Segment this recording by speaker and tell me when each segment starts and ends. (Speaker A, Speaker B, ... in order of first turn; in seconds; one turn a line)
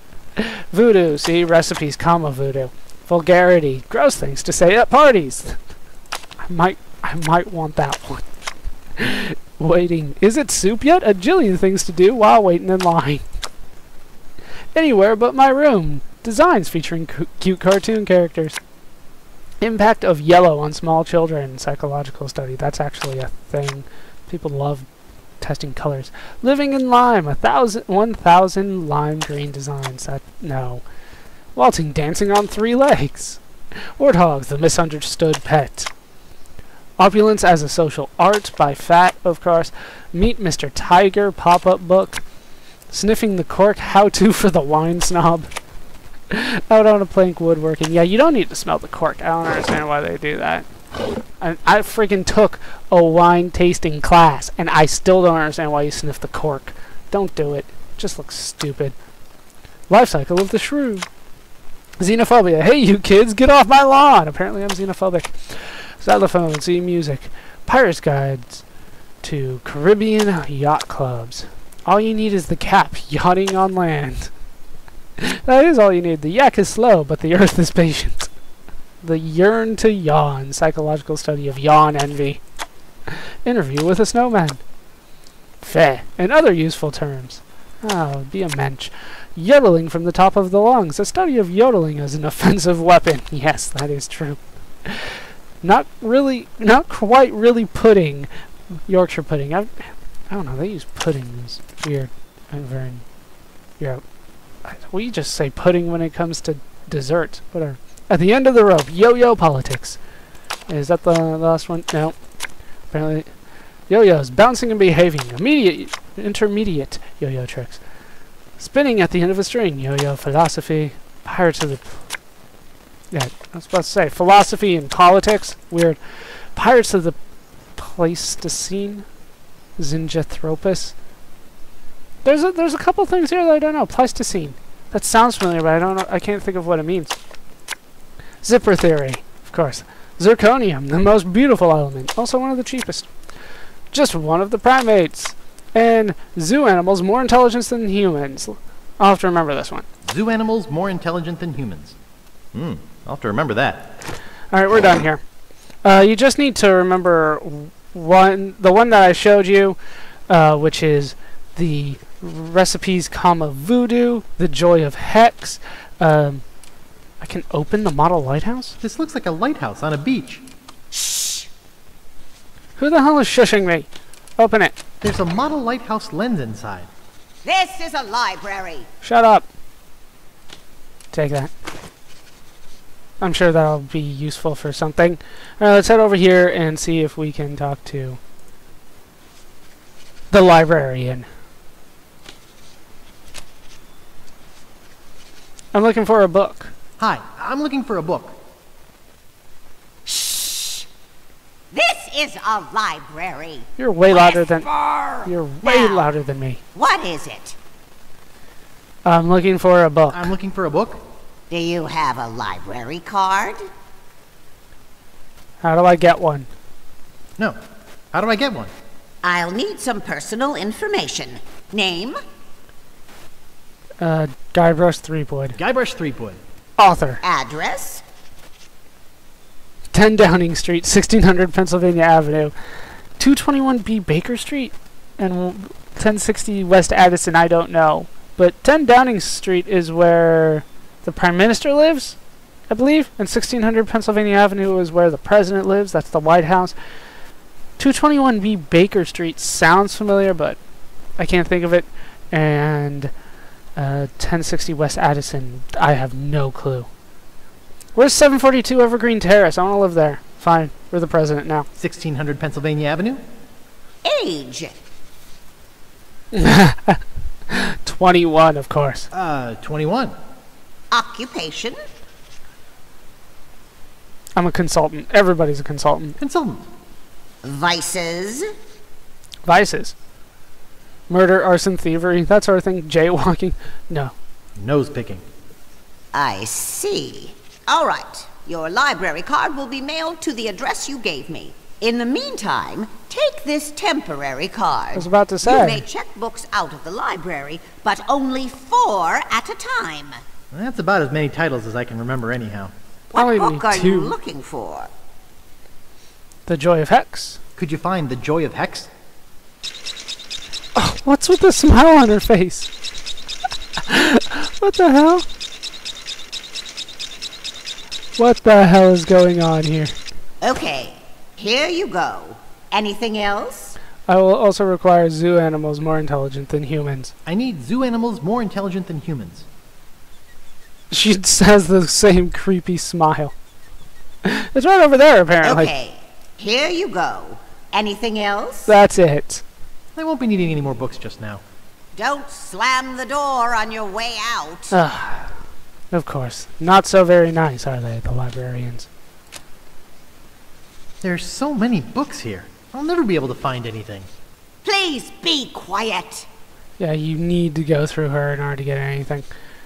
Speaker A: 0.4-5.6
Speaker A: 6.4-8.2
Speaker A: 9.0-13.2
Speaker A: 14.8-18.6
Speaker A: 19.6-24.9
Speaker A: 25.4-30.8
Speaker A: 31.6-33.4
Speaker A: 34.0-35.9
Speaker A: 37.0-42.2
Speaker A: 42.9-45.5
Speaker A: 46.3-50.7
Speaker A: 51.4-59.0
Speaker A: 59.9-61.1
Speaker A: 62.0-68.6
Speaker A: 69.2-74.3
Speaker A: 75.2-78.3
Speaker A: 79.0-82.4
Speaker A: 83.1-84.6
Speaker A: 85.6-98.3
Speaker A: 98.9-103.0
Speaker A: 104.6-110.0
Speaker A: 110.7-112.2
Speaker A: 112.9-113.3
Speaker A: 113.9-117.8
Speaker A: 118.6-122.0
Speaker A: 123.1-127.2
Speaker A: 127.8-129.1
Speaker A: 129.8-130.9
Speaker A: 132.2-137.1
Speaker A: 138.4-143.1
Speaker A: 143.9-149.8
Speaker B: 150.1-152.0
Speaker B: 152.5-153.9
Speaker A: 154.5-155.2
Speaker A: 155.8-159.8
Speaker A: 160.3-166.4
Speaker A: 167.2-168.8
Speaker B: 168.8-170.4
Speaker C: 170.9-171.4
Speaker A: 172.8-174.8
Speaker B: 175.0-176.9
Speaker C: 177.4-178.9
Speaker A: 179.0-179.5
Speaker A: 181.1-181.5
Speaker A: 183.2-188.2
Speaker A: 190.3-191.3
Speaker A: 195.7-196.7
Speaker B: 197.0-198.3
Speaker C: 200.1-200.9
Speaker C: 201.7-206.1
Speaker A: 203.8-204.7
Speaker A: 205.2-206.6
Speaker C: 206.8-207.6
Speaker A: 209.1-210.3
Speaker B: 210.1-211.0
Speaker C: 211.5-213.6
Speaker A: 215.6-216.5
Speaker B: 218.1-218.7
Speaker C: 219.2-222.2
Speaker A: 224.0-225.6
Speaker B: 225.6-226.4
Speaker A: 226.8-227.2
Speaker C: 227.2-228.0
Speaker A: 229.9-232.5
Speaker A: 233.2-242.2
Speaker A: 242.7-246.8
Speaker A: 247.8-250.6
Speaker A: 251.2-253.1
Speaker A: 253.8-256.9
Speaker A: 257.9-261.7
Speaker B: 261.8-263.2
Speaker C: 264.1-264.7
Speaker A: 266.3-269.1
Speaker B: 269.1-270.1
Speaker C: 270.9-271.8
Speaker A: 274.4-276.2
Speaker B: 276.2-276.7
Speaker C: 277.4-278.4
Speaker A: 279.4-279.9
Speaker A: 281.1-284.1
Speaker B: 284.6-285.2
Speaker C: 286.1-300.2
Speaker A: 294.9-295.9
Speaker B: 300.5-302.7
Speaker A: 303.1-304.2
Speaker C: 303.1-304.9
Speaker A: 306.5-307.4
Speaker B: 307.6-308.9
Speaker A: 310.8-312.7
Speaker A: 313.8-315.2
Speaker A: 318.2-319.9
Speaker C: 320.4-323.8
Speaker A: 324.1-327.1
Speaker B: 327.3-329.5
Speaker A: 330.9-333.3
Speaker A: 334.2-335.7
Speaker C: 335.4-338.7
Speaker A: 338.7-339.4
Speaker B: 340.0-341.4
Speaker C: 342.0-344.7
Speaker A: 344.7-345.3
Speaker A: 345.9-348.9
Speaker B: 351.0-354.1
Speaker C: 354.6-356.3
Speaker A: 356.8-359.3